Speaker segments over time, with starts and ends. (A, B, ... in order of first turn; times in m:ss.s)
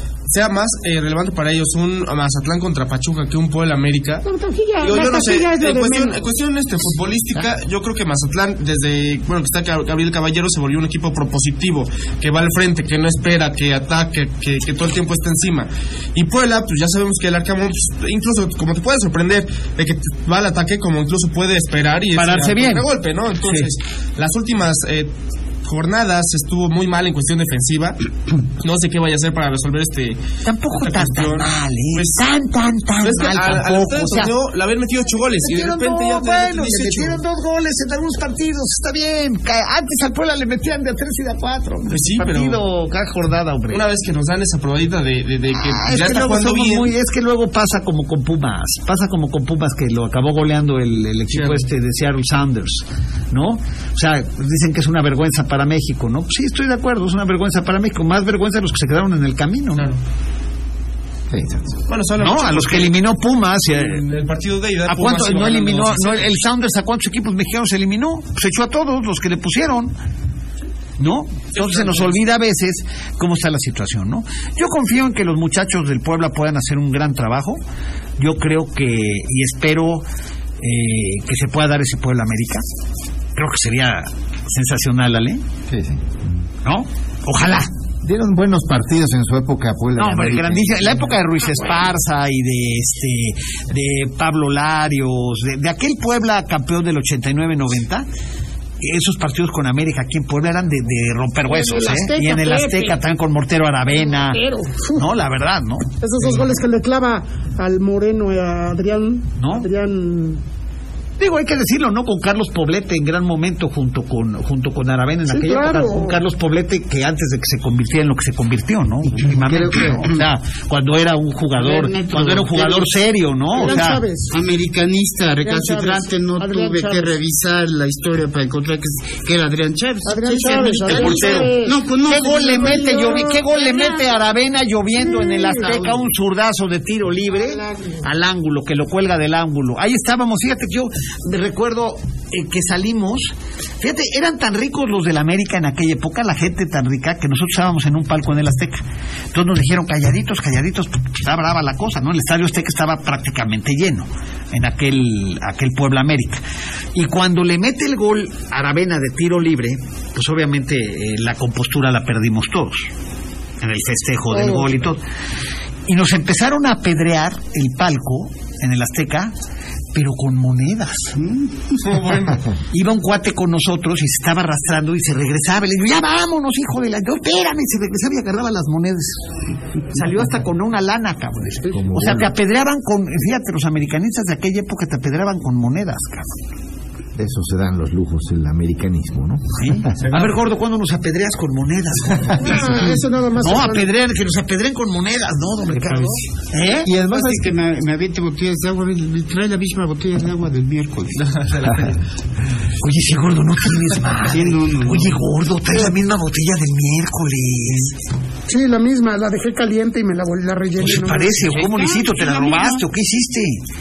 0:00.3-0:04.2 A
0:04.2-0:06.2 B
0:04.8-0:25.1 A
0:22.1-0:22.9 C
0:23.4-0:23.7 C
0:25.6-0:28.0 A
0:28.6-0:30.2 A
0:30.4-0:34.3 C
0:30.8-0:32.2 A
0:33.0-0:37.2 A
0:35.4-0:43.8 C
0:41.9-0:42.6 A
0:43.7-0:46.9 A
0:45.5-0:59.9 C
0:51.3-0:51.6 A
0:59.7-1:00.0 A
1:01.3-1:01.7 D
1:01.9-1:03.0 A
1:02.2-1:04.0 C
1:03.7-1:06.3 A
1:04.8-1:09.9 C
1:11.0-1:17.6 C
1:11.5-1:12.2 A
1:18.2-1:20.0 C
1:20.6-1:22.6 C
1:23.4-1:25.4 C
1:25.7-1:26.2 D
1:26.6-1:27.7 C
1:28.0-1:31.1 D
1:30.0-1:38.1 C
1:38.8-1:44.4 C
1:41.5-1:43.0 B
1:43.9-1:45.1 B
1:44.9-1:46.4 C
1:46.0-1:50.4 B
1:49.4-1:49.7 C
1:51.2-2:04.0 C
1:55.3-1:56.2 B
1:59.3-2:00.1 D
2:01.5-2:02.9 E
2:03.5-2:04.4 B
2:03.6-2:13.2 E
2:05.4-2:07.1 B
2:10.0-2:11.8 B
2:10.9-2:36.4 C
2:12.5-2:13.5 B
2:15.0-2:15.9 B
2:17.4-2:18.0 B
2:36.9-2:42.9 C
2:43.6-2:45.0 C
2:44.3-2:44.7 B
2:45.9-2:49.3 C
2:49.9-2:51.1 C
2:51.2-2:51.9 E
2:51.8-2:52.4 A
2:52.7-2:59.2 C
2:59.9-3:06.3 C
3:01.6-3:02.3 D
3:07.2-3:10.0 D
3:09.6-3:16.9 C
3:12.4-3:13.9 B
3:15.8-3:16.1 E
3:16.8-3:17.6 D
3:17.0-3:21.3 E
3:22.8-3:28.0 C
3:24.3-3:25.2 E
3:28.5-3:31.5 B
3:30.8-3:33.6 C
3:31.4-3:32.8 E